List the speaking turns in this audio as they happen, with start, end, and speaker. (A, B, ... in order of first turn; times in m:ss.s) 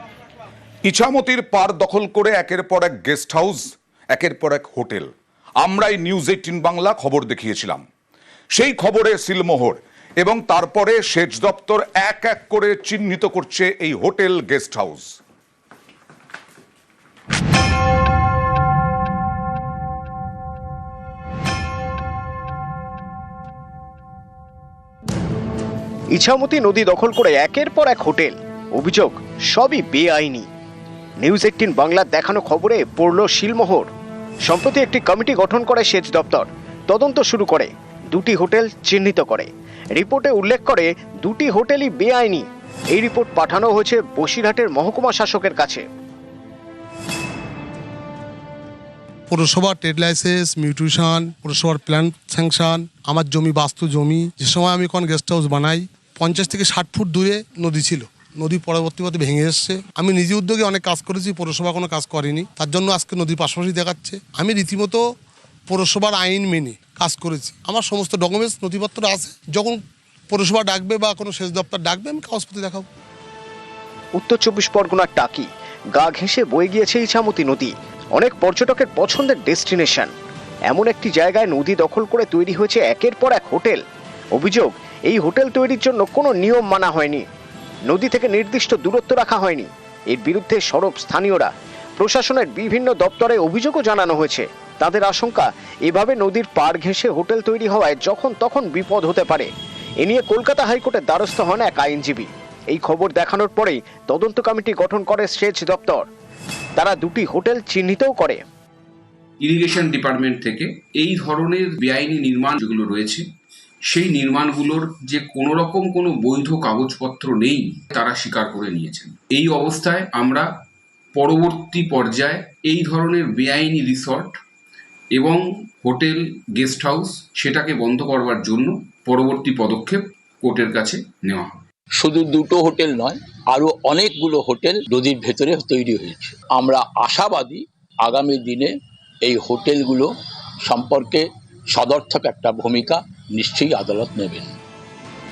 0:00.8-0:05.1 A
0:05.6-0:07.8 A
0:08.5-0:15.1 A
0:26.1-0:30.5 B
0:31.2-0:33.9 B
0:34.5-0:45.8 B
0:49.3-1:05.0 C
1:05.7-1:12.9 C
1:14.2-1:20.1 B
1:20.7-1:23.8 B
1:24.4-1:27.2 B
1:27.9-1:39.5 B
1:40.0-1:46.1 B
1:46.8-1:48.4 B
1:49.4-1:53.3 D
1:53.9-2:00.5 D
2:01.2-2:04.4 D
2:05.1-2:11.6 D
2:12.0-2:20.1 E
2:20.6-2:24.6 E